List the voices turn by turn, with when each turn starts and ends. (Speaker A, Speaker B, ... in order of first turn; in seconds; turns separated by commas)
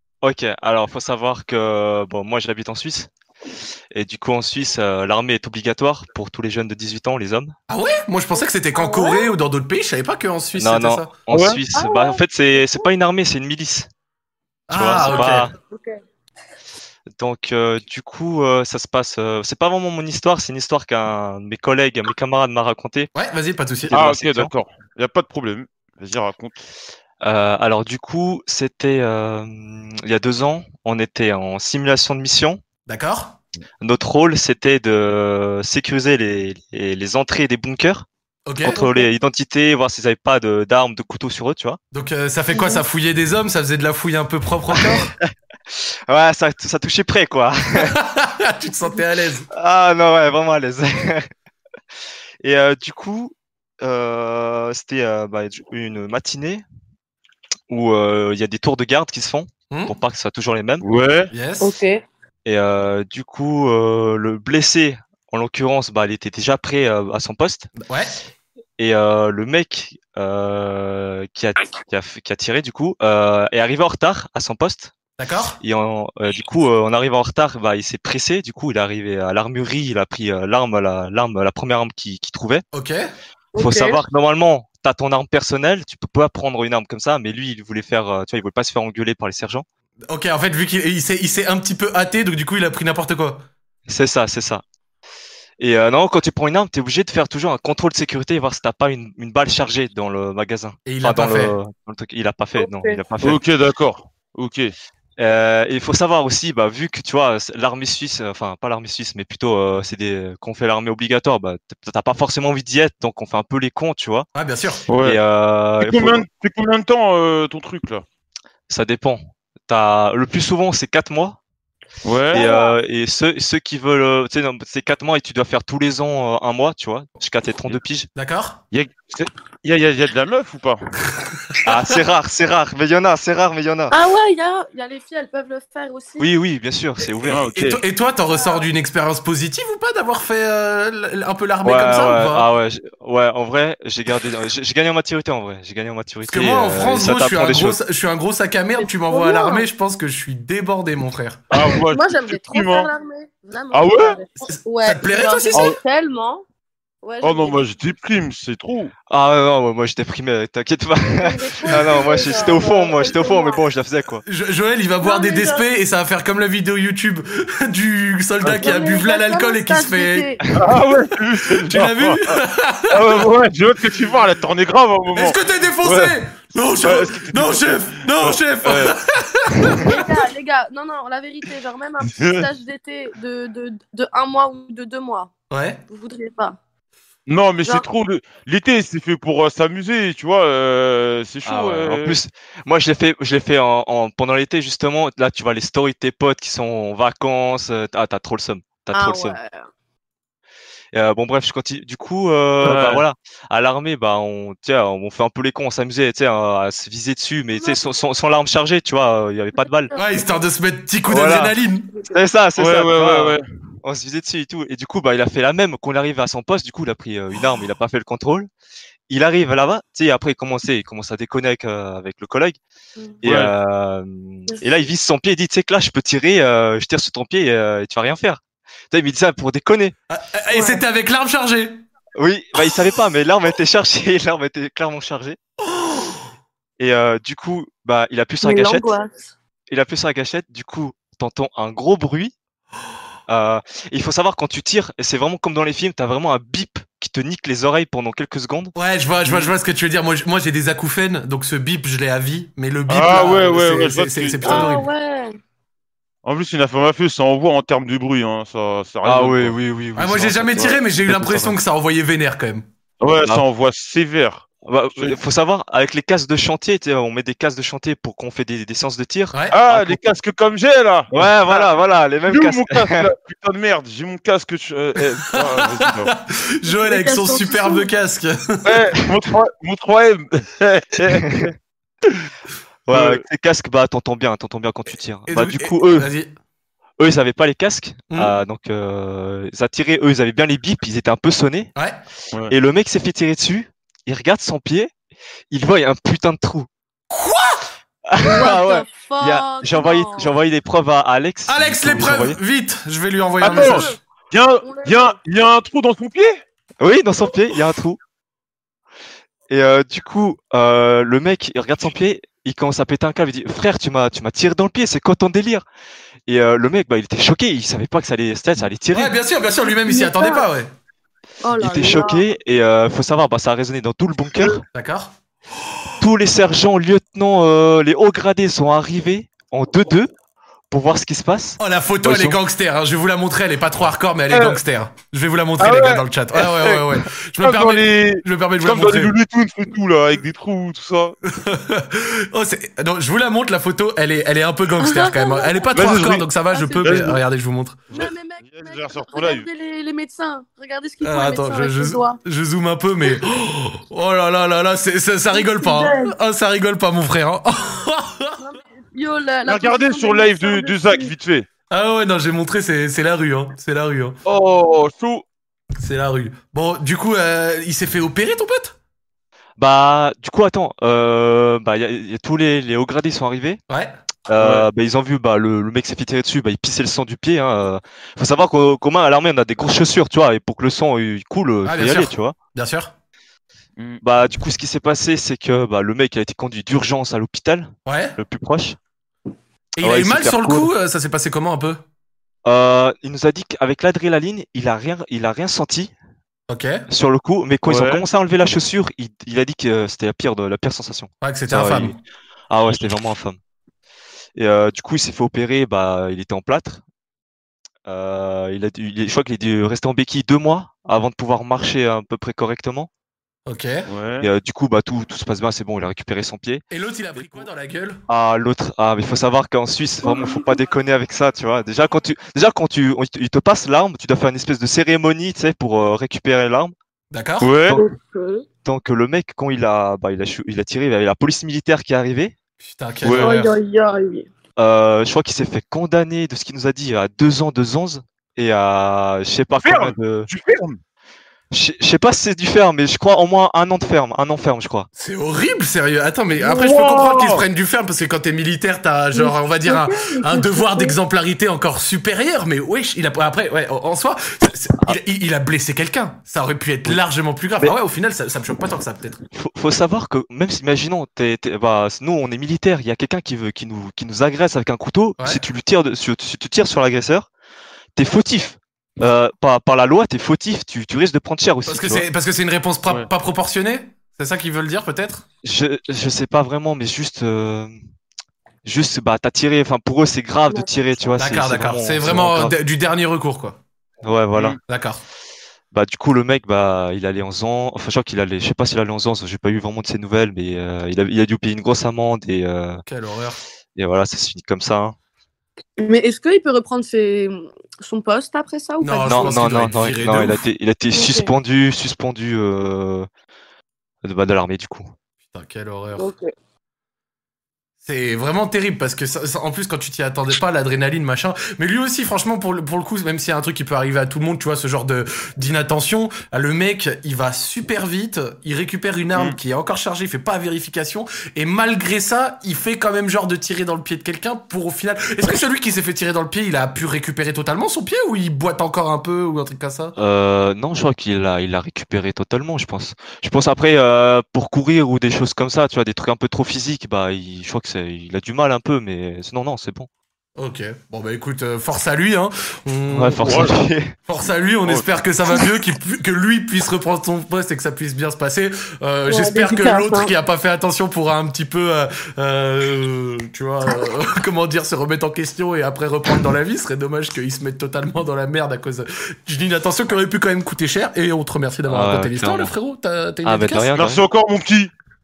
Speaker A: 0.2-3.1, Speaker A: 3.9-7.5, Speaker B: 7.7-11.1, Speaker C: 8.3-9.3, Speaker A: 10.6-13.9, Speaker D: 11.3-11.6, Speaker C: 11.8-12.9, Speaker B: 14.7-15.5, Speaker A: 14.7-15.5, Speaker C: 15.0-16.0, Speaker A: 17.2-23.1, Speaker B: 23.1-24.0, Speaker A: 23.8-24.5, Speaker D: 23.9-26.6, Speaker A: 27.2-32.6, Speaker B: 32.9-33.4, Speaker A: 33.8-38.1, Speaker B: 38.5-38.8, Speaker A: 38.6-41.8, Speaker C: 38.8-39.1, Speaker B: 41.9-45.1, Speaker C: 42.5-42.8, Speaker A: 44.7-47.9, Speaker B: 47.8-49.4, Speaker A: 49.5-51.3, Speaker A: 52.4-56.6, Speaker A: 57.7-60.8, Speaker D: 60.8-61.3, Speaker B: 61.3-61.8, Speaker C: 61.6-62.0, Speaker A: 62.4-67.7, Speaker B: 67.8-68.1, Speaker A: 68.8-74.9, Speaker B: 75.2-75.6, Speaker A: 75.6-82.6, Speaker B: 82.7-83.1, Speaker C: 83.5-84.0, Speaker A: 83.6-89.6, Speaker B: 90.1-93.4, Speaker A: 93.9-94.6, Speaker A: 95.6-103.4, Speaker B: 100.9-101.6, Speaker C: 102.6-103.0, Speaker D: 103.2-104.7, Speaker A: 105.2-114.3, Speaker B: 114.3-114.8, Speaker D: 114.9-115.2, Speaker A: 115.0-116.2, Speaker D: 115.8-118.0, Speaker A: 118.7-121.4, Speaker D: 122.0-122.5, Speaker C: 122.3-122.8, Speaker A: 122.3-128.1, Speaker B: 128.1-128.6, Speaker D: 128.7-130.8, Speaker A: 131.7-133.9, Speaker C: 133.9-136.3, Speaker A: 136.2-137.5, Speaker D: 137.3-137.8, Speaker B: 137.4-142.4, Speaker C: 138.3-138.7, Speaker A: 141.6-147.8, Speaker B: 146.2-151.5, Speaker C: 148.8-149.7, Speaker D: 151.5-152.9, Speaker C: 151.9-156.4, Speaker D: 153.7-154.2, Speaker B: 154.4-155.7, Speaker C: 157.0-157.6, Speaker D: 157.2-158.9, Speaker A: 159.1-164.2, Speaker C: 161.1-163.6, Speaker B: 164.2-170.3, Speaker C: 165.0-165.6, Speaker C: 168.4-170.4, Speaker D: 170.6-172.4, Speaker B: 171.6-172.9, Speaker D: 172.9-176.1, Speaker B: 175.2-179.9, Speaker D: 176.8-178.9, Speaker C: 179.8-185.3, Speaker D: 182.0-182.5, Speaker B: 185.5-185.8, Speaker C: 185.9-186.6, Speaker D: 187.3-192.2, Speaker A: 191.4-199.4, Speaker C: 198.9-199.6, Speaker A: 200.9-209.9, Speaker D: 202.6-203.0, Speaker C: 207.5-207.8, Speaker C: 209.6-210.4, Speaker B: 209.9-211.9, Speaker A: 211.1-211.5, Speaker C: 211.9-212.2, Speaker A: 212.1-218.5, Speaker D: 212.6-213.4, Speaker A: 219.1-222.6, Speaker A: 223.2-229.9, Speaker D: 223.2-223.5, Speaker C: 224.5-224.8, Speaker B: 230.1-231.8, Speaker C: 230.5-230.8, Speaker A: 232.2-235.4, Speaker B: 235.7-236.2, Speaker A: 236.8-238.9, Speaker C: 238.4-239.3, Speaker A: 239.7-242.3, Speaker A: 243.3-248.7, Speaker B: 248.7-254.9, Speaker D: 249.3-249.5, Speaker D: 252.9-254.7, Speaker C: 254.4-255.4, Speaker D: 256.2-259.6, Speaker A: 259.0-261.6, Speaker B: 259.9-262.6, Speaker D: 263.0-265.2, Speaker A: 264.6-270.0, Speaker B: 269.3-269.6, Speaker D: 269.5-276.1, Speaker A: 271.1-273.1, Speaker B: 275.3-278.8, Speaker C: 276.7-277.9, Speaker D: 278.6-281.5, Speaker A: 281.1-281.5, Speaker A: 282.9-286.1, Speaker D: 282.9-283.2, Speaker B: 285.3-286.3, Speaker A: 287.0-291.7, Speaker B: 288.1-288.4, Speaker A: 292.5-294.9, Speaker A: 295.5-296.7, Speaker B: 297.1-297.6, Speaker A: 298.1-302.4, Speaker C: 298.2-300.3, Speaker B: 301.5-303.9, Speaker D: 303.4-306.4, Speaker C: 303.5-303.9, Speaker C: 304.6-305.1, Speaker A: 306.8-308.0, Speaker A: 309.5-315.6, Speaker A: 316.3-319.2, Speaker B: 318.9-320.7, Speaker C: 319.8-320.5, Speaker C: 321.4-322.2, Speaker A: 321.5-324.6, Speaker B: 324.7-325.1, Speaker A: 326.0-330.1, Speaker A: 330.7-332.4, Speaker B: 331.6-339.1, Speaker D: 334.3-334.6, Speaker D: 335.6-341.2, Speaker B: 341.3-347.8, Speaker C: 344.8-345.7, Speaker D: 345.7-347.2, Speaker C: 346.5-346.9, Speaker D: 347.9-349.5, Speaker C: 347.9-352.2, Speaker B: 351.0-358.4, Speaker C: 355.3-356.1, Speaker C: 358.4-361.1, Speaker D: 359.4-361.5, Speaker B: 361.7-364.2, Speaker D: 364.2-365.2, Speaker B: 365.8-368.7, Speaker A: 369.6-373.6, Speaker B: 373.7-373.9, Speaker A: 374.3-382.3, Speaker D: 374.4-374.7, Speaker B: 381.6-382.9, Speaker A: 384.0-388.8, Speaker B: 387.9-388.2, Speaker B: 389.8-391.8, Speaker A: 389.8-390.7, Speaker A: 392.4-395.9, Speaker B: 396.5-396.8, Speaker A: 396.9-402.0, Speaker D: 397.6-398.1, Speaker B: 401.2-401.9, Speaker A: 402.5-403.4, Speaker A: 404.4-406.8, Speaker A: 407.9-412.9, Speaker B: 413.4-413.9, Speaker D: 413.9-414.3, Speaker A: 414.2-416.6, Speaker B: 416.7-418.0, Speaker A: 418.1-426.7, Speaker C: 420.0-420.5, Speaker B: 427.1-427.5, Speaker D: 427.4-427.8, Speaker C: 427.7-428.4, Speaker A: 428.6-432.3, Speaker B: 432.6-433.6, Speaker D: 433.0-433.3, Speaker C: 433.2-434.3, Speaker A: 434.6-440.3, Speaker D: 439.6-440.8, Speaker A: 441.5-444.9, Speaker B: 445.0-459.2, Speaker D: 446.4-447.4, Speaker C: 449.1-451.0, Speaker A: 459.3-467.3, Speaker A: 467.9-472.1, Speaker B: 471.7-475.2, Speaker A: 475.4-477.7, Speaker A: 478.6-482.6, Speaker B: 481.2-483.6, Speaker A: 484.0-484.6, Speaker D: 484.3-484.6, Speaker B: 484.7-485.0, Speaker A: 485.7-492.8, Speaker B: 492.9-493.4, Speaker A: 493.8-494.9, Speaker C: 495.8-499.3, Speaker B: 498.8-500.4, Speaker A: 499.1-503.1, Speaker C: 500.9-501.3, Speaker A: 504.0-504.9, Speaker B: 505.3-506.1, Speaker C: 506.0-506.3, Speaker B: 507.8-529.9, Speaker A: 530.0-539.9, Speaker B: 540.4-543.5, Speaker A: 542.9-543.9, Speaker D: 543.2-543.5, Speaker B: 544.1-563.7, Speaker C: 549.1-550.1, Speaker A: 561.7-562.5, Speaker A: 563.2-564.0, Speaker D: 563.7-564.7